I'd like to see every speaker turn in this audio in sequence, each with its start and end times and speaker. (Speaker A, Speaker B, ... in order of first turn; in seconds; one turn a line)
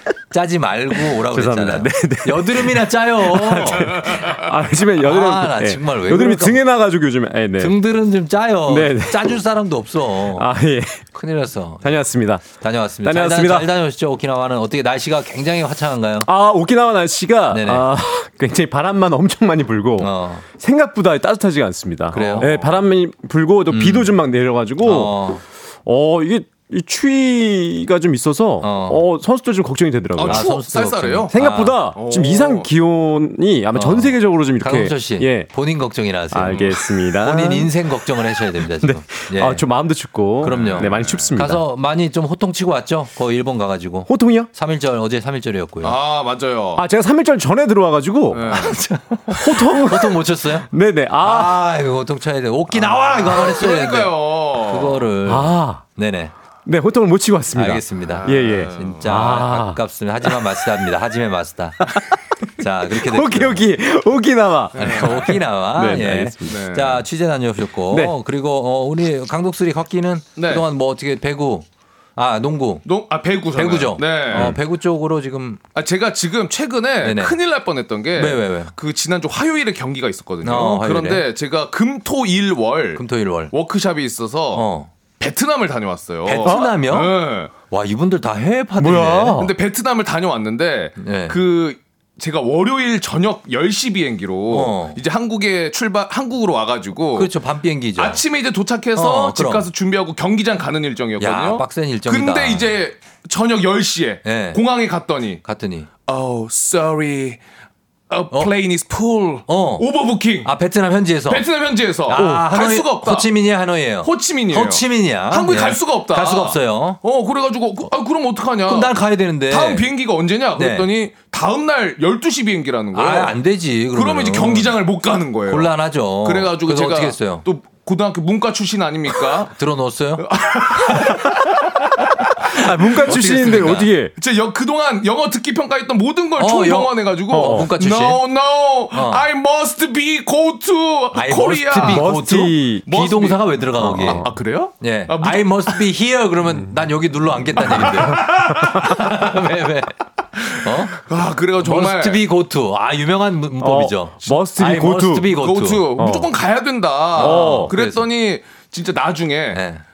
Speaker A: 0.3-4.2
Speaker B: 1.3-7.7
Speaker C: 3.8-4.7
Speaker A: 5.0-6.6
Speaker A: 7.6-10.5
Speaker B: 8.7-9.3
Speaker B: 10.4-11.0
Speaker A: 11.1-16.3
Speaker B: 11.8-12.4
Speaker B: 13.0-13.7
Speaker B: 16.2-25.2
Speaker A: 17.5-17.9
Speaker A: 20.0-20.4
Speaker A: 22.1-22.7
Speaker C: 22.1-22.8
Speaker A: 23.7-24.2
Speaker A: 24.8-25.4
Speaker B: 25.8-30.5
Speaker A: 28.6-29.1
Speaker C: 30.1-31.3
Speaker A: 30.3-31.9
Speaker B: 31.3-35.5
Speaker C: 31.9-32.7
Speaker A: 33.7-39.6
Speaker B: 36.3-37.7
Speaker C: 36.4-36.9
Speaker B: 38.8-41.6
Speaker A: 40.4-46.0
Speaker C: 40.4-41.3
Speaker B: 44.1-44.5
Speaker C: 45.8-46.9
Speaker B: 46.8-48.6
Speaker C: 48.3-48.8
Speaker A: 48.5-50.7
Speaker C: 49.3-49.5
Speaker B: 49.4-51.5
Speaker A: 51.2-56.3
Speaker C: 52.8-55.2
Speaker B: 55.2-55.8
Speaker B: 56.6-59.8
Speaker A: 57.5-61.9
Speaker C: 58.1-59.2
Speaker A: 62.6-63.6
Speaker B: 62.9-66.7
Speaker C: 64.7-65.2
Speaker A: 64.7-72.8
Speaker C: 66.5-67.0
Speaker B: 67.9-68.1
Speaker C: 70.4-70.6
Speaker C: 72.8-74.6
Speaker A: 73.5-75.6
Speaker C: 75.7-84.6
Speaker A: 77.0-77.3
Speaker A: 78.1-78.7
Speaker A: 80.4-81.3
Speaker A: 82.9-83.5
Speaker A: 84.5-84.9
Speaker C: 85.2-87.5
Speaker A: 86.2-89.5
Speaker B: 86.4-86.8
Speaker B: 88.8-89.5
Speaker C: 89.3-97.3
Speaker A: 91.0-91.4
Speaker A: 94.5-95.0
Speaker A: 97.1-98.2
Speaker C: 98.0-105.4
Speaker A: 99.0-99.7
Speaker A: 101.2-102.7
Speaker A: 104.2-104.6
Speaker A: 105.4-105.9
Speaker C: 106.1-107.4
Speaker C: 108.1-110.5
Speaker A: 109.5-109.9
Speaker A: 110.4-111.5
Speaker C: 111.3-113.3
Speaker A: 112.0-117.0
Speaker C: 114.0-118.9
Speaker A: 118.6-119.9
Speaker C: 119.5-123.4
Speaker A: 120.5-120.9
Speaker A: 122.9-124.8
Speaker C: 123.9-129.5
Speaker A: 125.5-127.5
Speaker A: 129.4-130.2
Speaker C: 130.2-142.3
Speaker B: 132.5-134.1
Speaker A: 133.1-133.9
Speaker A: 136.4-138.2
Speaker B: 137.3-137.7
Speaker A: 138.9-139.2
Speaker A: 141.1-144.3
Speaker B: 141.8-142.9
Speaker C: 142.8-145.9
Speaker B: 143.8-144.4
Speaker A: 144.8-150.9
Speaker C: 147.6-149.3
Speaker C: 150.3-152.2
Speaker A: 151.6-155.9
Speaker B: 153.6-155.3
Speaker C: 155.3-159.6
Speaker B: 156.0-156.3
Speaker B: 157.1-157.7
Speaker A: 157.1-158.1
Speaker A: 159.5-159.8